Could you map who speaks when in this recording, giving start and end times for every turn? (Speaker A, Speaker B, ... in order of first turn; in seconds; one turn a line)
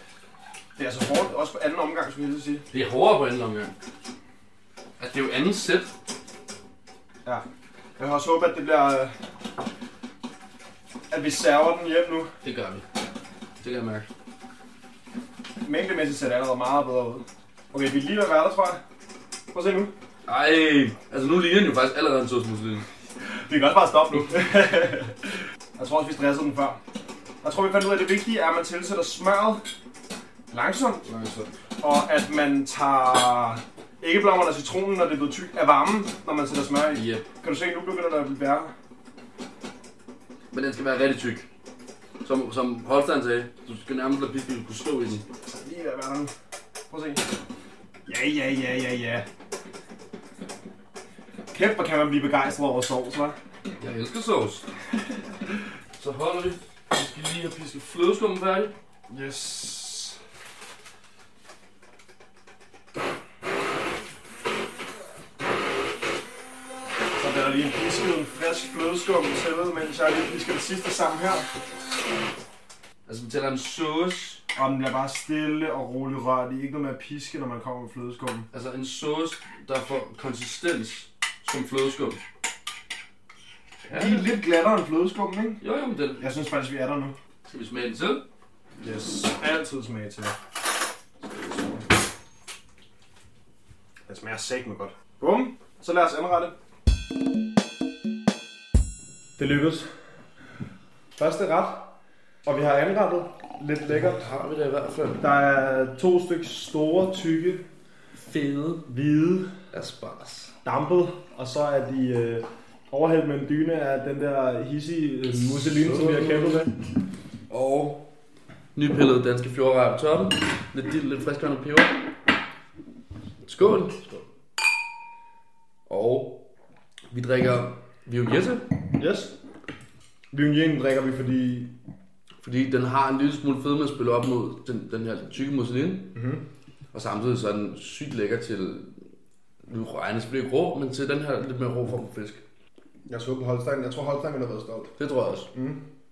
Speaker A: 0.8-2.6
Speaker B: 2.7-3.7
Speaker B: 5.0-5.9
Speaker A: 8.0-9.1
Speaker A: 11.1-12.3
Speaker B: 12.4-12.9
Speaker B: 13.6-14.1
Speaker A: 15.6-18.8
Speaker A: 19.5-19.9
Speaker B: 20.2-22.9
Speaker A: 23.2-26.8
Speaker A: 27.4-29.6
Speaker A: 30.5-31.1
Speaker B: 31.0-31.5
Speaker A: 31.8-38.7
Speaker B: 36.9-37.3
Speaker B: 40.5-41.5
Speaker B: 42.2-45.2
Speaker A: 45.6-46.3
Speaker A: 46.9-47.3
Speaker A: 48.1-49.3
Speaker A: 51.5-53.4
Speaker B: 53.8-54.6
Speaker B: 56.0-58.7
Speaker A: 59.1-60.2
Speaker A: 67.2-71.5
Speaker B: 73.0-74.4
Speaker A: 74.5-78.5
Speaker B: 78.5-82.2
Speaker B: 83.8-84.3
Speaker A: 83.9-85.6
Speaker B: 85.6-86.3
Speaker A: 86.2-87.1
Speaker B: 87.4-88.2
Speaker A: 88.8-90.4
Speaker A: 94.1-96.5
Speaker A: 99.4-99.9
Speaker A: 101.2-104.3
Speaker B: 103.9-105.2
Speaker A: 105.2-107.7
Speaker B: 108.2-108.9
Speaker A: 108.9-109.6
Speaker B: 109.7-110.5
Speaker A: 110.6-116.7
Speaker B: 115.3-116.7
Speaker B: 117.5-118.1
Speaker B: 118.7-122.1
Speaker B: 123.4-124.2
Speaker B: 125.9-126.5
Speaker B: 127.1-128.8
Speaker A: 129.0-129.4
Speaker A: 130.3-131.8
Speaker B: 132.4-136.2
Speaker A: 136.1-136.4
Speaker B: 136.9-139.0
Speaker B: 139.7-142.4
Speaker A: 143.1-144.9
Speaker B: 145.0-145.5
Speaker A: 145.5-145.9